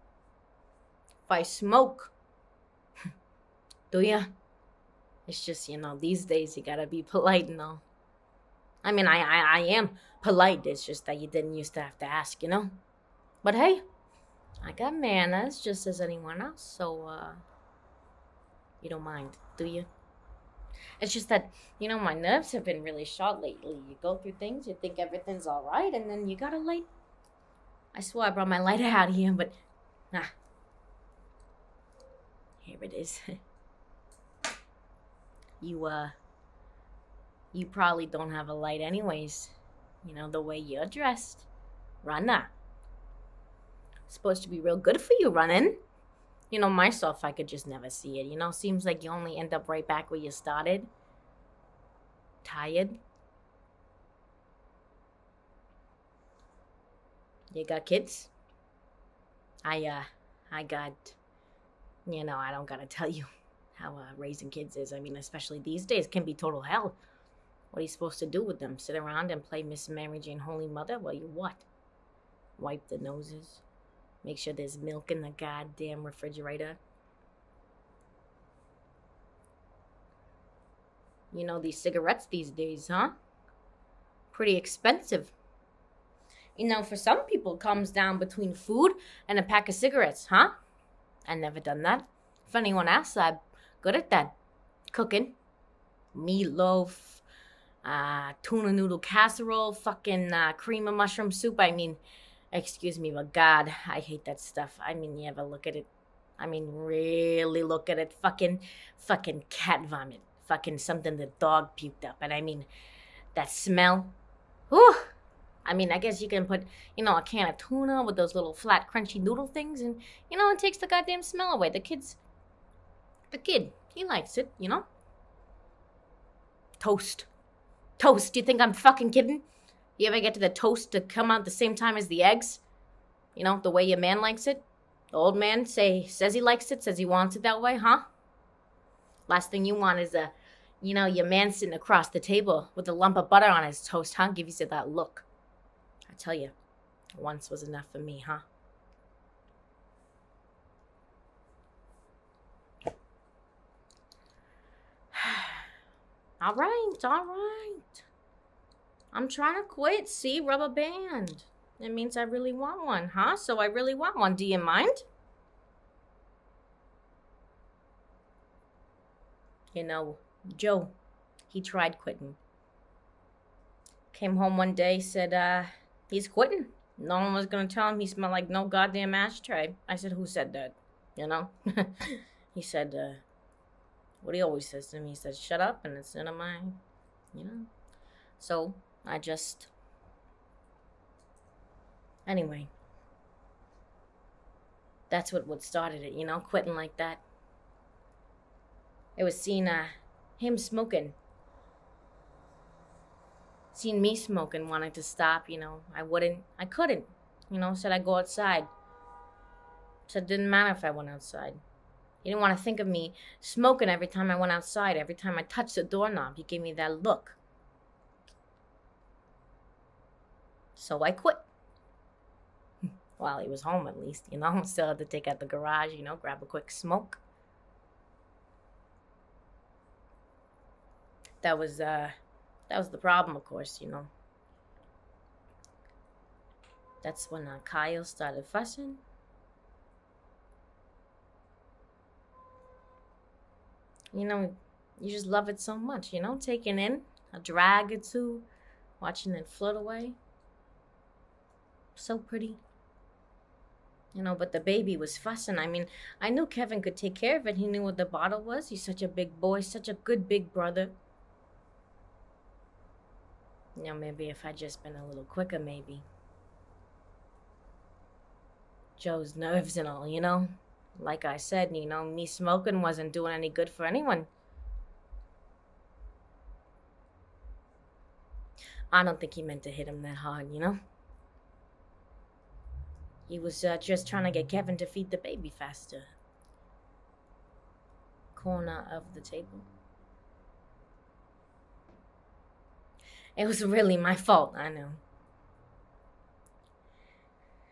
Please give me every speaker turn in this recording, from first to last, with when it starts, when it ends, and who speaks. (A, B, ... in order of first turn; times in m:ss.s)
0:01.3-0:02.1 A
0:03.9-0:04.3 A
0:05.3-0:07.8 A
0:08.8-0:12.8 A
0:13.4-0:13.8 A
0:14.6-0:17.4 A
0:18.8-0:19.9 A
0:21.0-0:26.9 A
0:27.9-0:29.6 A
0:32.6-0:33.2 A
0:35.6-0:36.1 A
0:37.5-0:41.5 A
0:42.0-0:42.5 A
0:44.1-0:45.8 A
0:46.5-0:50.9 A
0:52.4-0:53.0 A
0:57.5-0:58.3 A
0:59.6-1:01.2 A
1:02.0-1:07.0 A
1:07.7-1:11.7 A
1:12.6-1:13.6 A
1:14.2-1:16.8 A
1:21.3-1:23.1 A
1:24.3-1:25.3 A
1:26.6-1:30.5 A
1:31.3-1:34.3 A
1:34.9-1:35.4 A
1:36.1-1:37.2 A
1:37.8-1:42.0 A
1:42.5-1:52.7 A
1:53.3-1:54.1 A
1:54.7-1:55.1 A
1:55.6-2:02.2 A
2:03.3-2:04.8 A
2:06.8-2:07.3 A
2:08.0-2:09.4 A
2:10.0-2:12.6 A
2:13.4-2:18.0 A
2:19.3-2:25.3 A
2:26.1-2:26.5 A
2:27.2-2:28.4 A
2:35.1-2:35.6 A
2:36.4-2:38.0 A
2:39.1-2:45.0 A
2:49.7-2:50.9 A
2:51.5-2:52.4 A
2:54.1-3:03.2 A
3:04.2-3:06.8 A
3:07.3-3:07.7 A
3:08.4-3:09.7 A
3:12.2-3:12.7 A
3:15.1-3:17.2 A
3:19.2-3:21.2 A
3:23.7-3:28.7 A
3:30.1-3:31.6 A
3:32.2-3:37.4 A
3:40.8-3:41.5 A
3:43.2-3:47.2 A
3:51.4-3:52.1 A
3:52.7-3:54.1 A
3:57.0-3:59.0 A
4:04.1-4:08.5 A
4:09.0-4:10.2 A
4:12.0-4:12.6 A
4:14.1-4:21.0 A
4:23.8-4:26.0 A
4:29.0-4:34.3 A
4:38.9-4:40.8 A
4:43.3-4:46.1 A
4:48.3-4:49.7 A
4:53.4-4:55.0 A